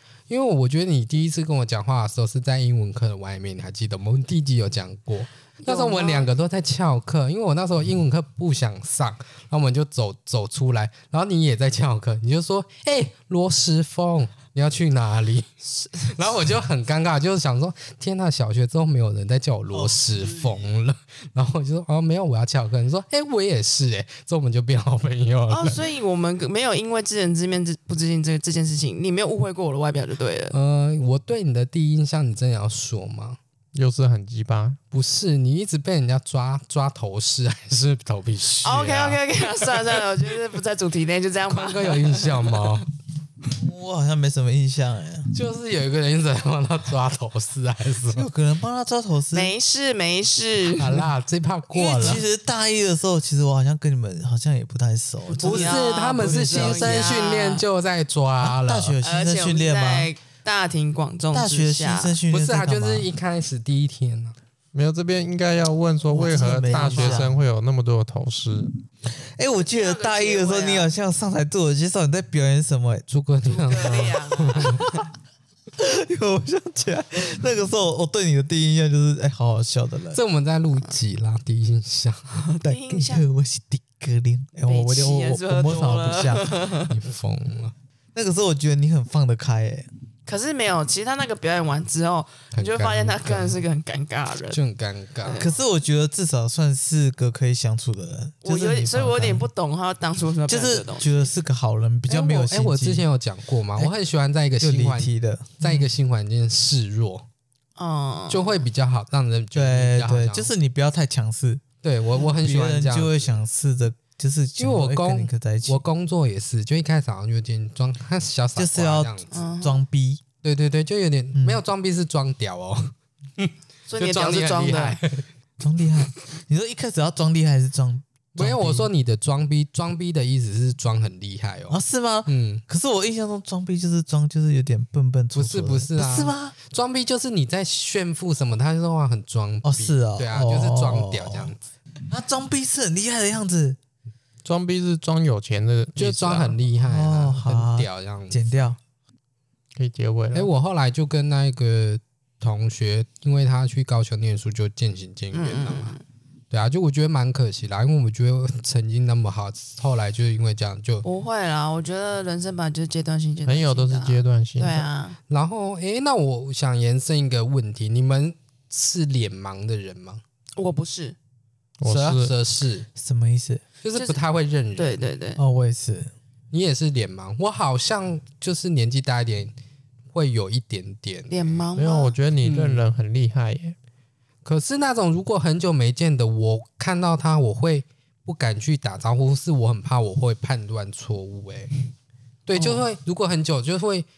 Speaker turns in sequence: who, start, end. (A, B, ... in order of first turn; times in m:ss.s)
0:00.3-0:15.5 A
0:05.6-0:06.3 B
0:15.6-0:16.2 B
0:16.1-0:25.9 A
0:19.7-0:20.6 B
0:25.5-0:30.6 B
0:30.5-0:33.4 A
0:33.7-0:34.8 C
0:34.9-0:39.2 A
0:38.6-0:42.8 B
0:41.5-0:42.8 A
0:43.5-0:45.3 D
0:45.3-0:48.3 A
0:48.0-0:49.5 D
0:49.3-0:51.0 B
0:50.8-0:52.2 A
0:51.7-0:57.1 D
0:55.3-0:57.6 B
0:55.4-0:59.0 A
0:58.4-1:00.1 D
0:59.0-1:02.2 B
1:01.3-1:03.1 D
1:02.3-1:04.4 A
1:04.7-1:08.7 C
1:06.1-1:07.4 D
1:06.3-1:07.2 B
1:09.1-1:13.1 D
1:09.6-1:10.9 B
1:13.1-1:14.8 A
1:13.4-1:15.0 B
1:15.8-1:20.2 D
1:20.1-1:22.5 A
1:22.4-1:23.3 B
1:22.6-1:26.6 D
1:24.6-1:26.9 B
1:26.8-1:27.7 A
1:28.1-1:29.9 D
1:30.2-1:34.6 B
1:32.5-1:33.6 A
1:34.5-1:35.5 A
1:35.2-1:35.6 B
1:35.4-1:39.5 D
1:38.4-1:41.3 B
1:40.5-1:43.1 D
1:42.1-1:47.2 A
1:44.6-1:45.9 D
1:47.8-1:48.6 B
1:48.3-1:50.5 A
1:49.5-1:51.6 D
1:51.8-1:53.5 A
1:52.2-1:55.8 D
1:54.6-1:59.3 A
1:58.6-2:00.2 D
1:59.3-1:59.8 B
2:00.4-2:05.3 A
2:01.4-2:01.6 D
2:03.9-2:05.0 B
2:05.6-2:08.9 D
2:08.4-2:12.6 A
2:11.7-2:16.6 D
2:15.3-2:21.6 A
2:19.6-2:21.5 D
2:22.1-2:23.8 D
2:24.4-2:26.6 C
2:26.0-2:28.8 A
2:26.8-2:28.8 D
2:29.8-2:30.5 C
2:30.3-2:36.0 A
2:35.3-2:36.0 B
2:36.5-2:41.0 A
2:41.0-2:45.2 B
2:43.4-2:44.9 C
2:45.3-2:50.2 A
2:50.6-2:51.2 B
2:51.8-2:52.3 C
2:51.8-2:52.9 A
2:53.0-2:53.6 D
2:53.8-2:55.0 A
2:53.9-2:54.2 B
2:54.8-2:55.4 B
2:55.4-2:56.1 D
2:56.5-2:59.5 A
3:00.1-3:01.7 A
3:01.3-3:02.2 B
3:01.8-3:03.8 C
3:02.4-3:02.8 A
3:04.4-3:11.7 A
3:12.5-3:14.1 A
3:12.5-3:12.9 B